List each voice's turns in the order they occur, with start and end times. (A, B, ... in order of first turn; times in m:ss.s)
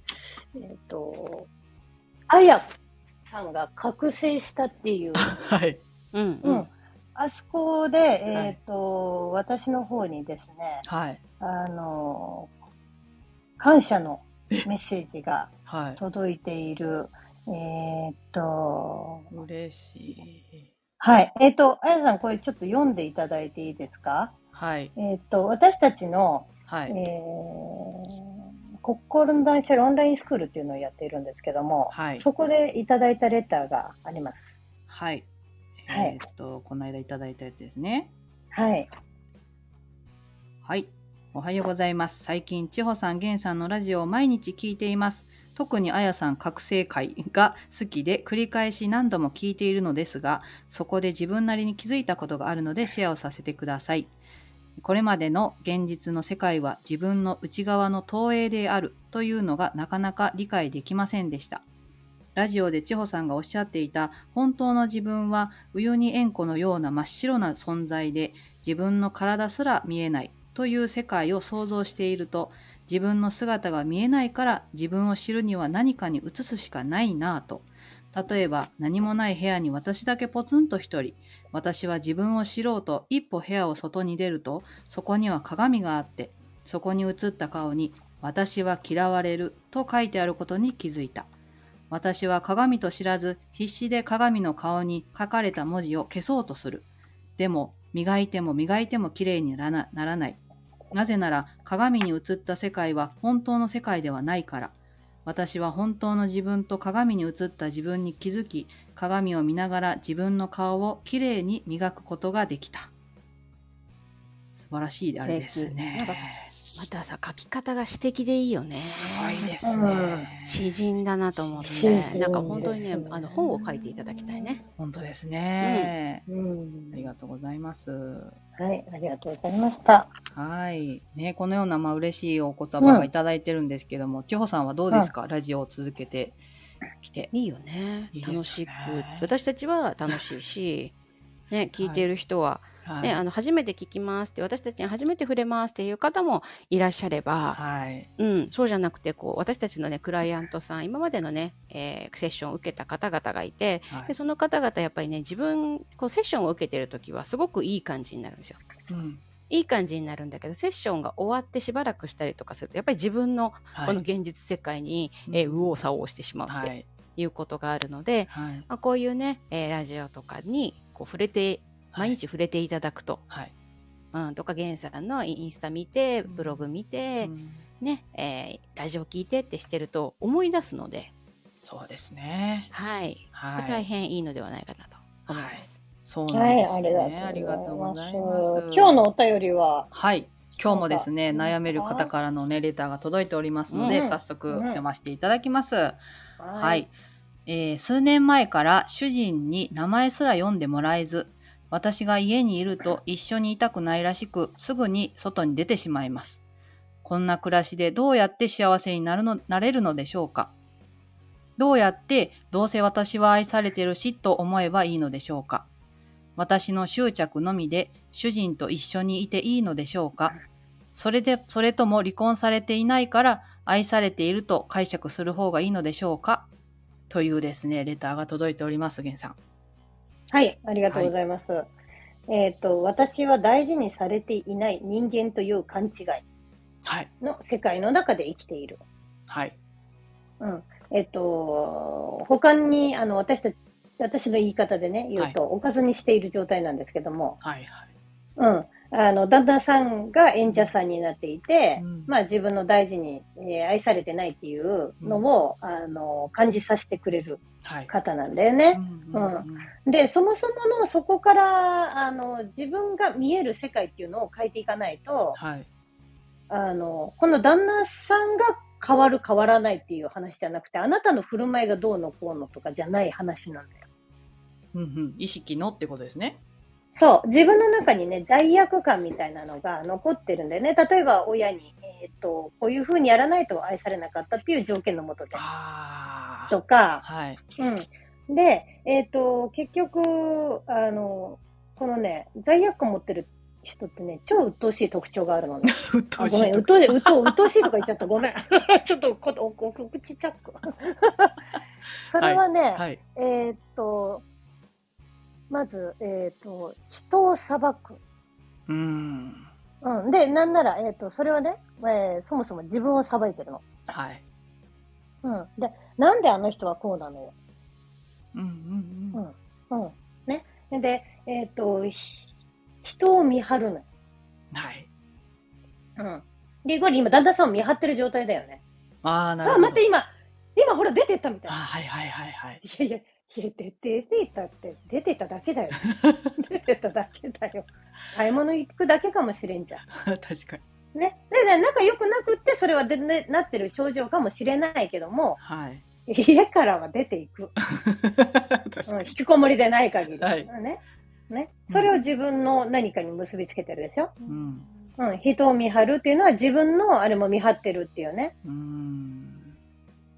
0:00.5-0:01.5 A
0:02.3-0:02.7 A
0:03.3-0:05.3 A
0:05.2-0:05.8 B
0:06.1-0:06.7 C
0:06.4-0:10.8 A
0:10.8-0:11.2 B
0:11.4-0:12.5 A
0:13.6-0:19.3 A
0:15.7-0:16.0 B
0:19.3-0:20.7 B
0:21.0-0:24.3 A
0:24.5-0:24.9 B
0:25.0-0:28.3 A
0:26.7-0:26.9 B
0:28.8-0:34.5 A
0:31.9-0:32.2 B
0:34.9-0:35.3 B
0:35.8-0:38.1 B
0:35.9-0:36.2 A
0:38.5-0:38.9 A
0:40.6-0:54.1 B
0:54.8-1:01.6 B
1:02.4-1:31.3 B
1:31.9-1:36.8 B
1:37.4-1:40.4 B
1:40.9-1:44.7 B
1:45.2-1:52.9 B
1:54.5-1:56.5 B
1:55.2-1:59.5 C
1:58.9-2:00.7 B
1:59.6-2:00.3 A
2:00.4-2:04.6 C
2:01.4-2:02.7 B
2:01.7-2:03.2 A
2:04.8-2:06.2 B
2:05.6-2:05.9 C
2:06.3-2:07.1 A
2:06.9-2:08.3 B
2:08.6-2:10.1 A
2:10.3-2:16.4 B
2:12.8-2:13.1 A
2:17.0-2:17.3 B
2:17.3-2:20.9 C
2:18.1-2:19.3 B
2:21.5-2:27.6 C
2:21.8-2:22.0 B
2:22.8-2:23.2 B
2:27.5-2:28.1 B
2:28.2-2:38.6 C
2:38.9-2:39.2 B
2:39.5-2:53.2 C
2:43.7-2:44.0 B
2:45.3-2:45.7 B
2:46.4-2:46.9 B
2:48.3-2:48.7 B
2:54.1-3:01.1 C
2:56.2-2:56.7 B
2:57.2-2:57.6 B
3:01.6-3:02.7 B
3:02.7-3:05.8 C
3:03.3-3:03.8 B
3:05.3-3:09.0 B
3:06.3-3:09.9 A
3:09.9-3:16.0 B
3:10.6-3:12.1 A
3:13.7-3:14.0 C
3:13.8-3:14.8 A
3:16.4-3:16.9 A
3:16.5-3:16.9 B
3:17.4-3:26.4 B
3:27.0-3:30.5 B
3:31.6-3:35.7 B
3:36.4-3:40.3 B
3:40.9-3:46.5 B
3:47.1-3:49.4 B
3:50.3-3:51.7 A
3:50.9-3:51.1 B
3:52.3-3:56.2 A
3:57.2-3:58.8 A
3:59.3-3:59.6 B
4:00.4-4:07.4 A
4:07.4-4:07.9 B
4:08.4-4:25.4 A
4:10.4-4:10.7 B
4:11.8-4:12.1 B
4:17.6-4:17.9 B
4:18.7-4:19.7 B
4:25.3-4:25.7 B
4:26.5-4:33.8 A
4:34.7-4:36.4 B
4:36.9-4:45.4 A
4:45.3-4:47.4 B
4:46.5-4:47.0 A
4:47.6-5:01.3 A
4:55.6-4:57.3 B
5:02.1-5:04.2 A
5:02.1-5:03.0 B
5:05.5-5:08.0 A
5:08.7-5:09.5 B
5:09.8-5:13.6 A
5:13.9-5:14.2 B
5:15.2-5:17.3 A
5:18.3-5:19.2 B
5:19.1-5:22.3 A
5:22.8-5:23.8 A
5:24.5-5:24.9 B
5:26.0-5:28.6 A
5:29.0-5:29.8 B
5:29.4-5:31.6 A
5:31.5-5:32.6 B
5:32.6-5:39.8 A
5:39.9-5:40.6 B
5:40.9-5:45.4 A
5:45.4-5:45.8 B
5:46.1-5:47.5 A
5:47.7-5:49.1 B
5:48.9-5:54.1 A
5:50.2-5:50.5 B
5:54.3-5:54.7 B
5:55.0-5:58.3 A
5:58.4-5:59.6 B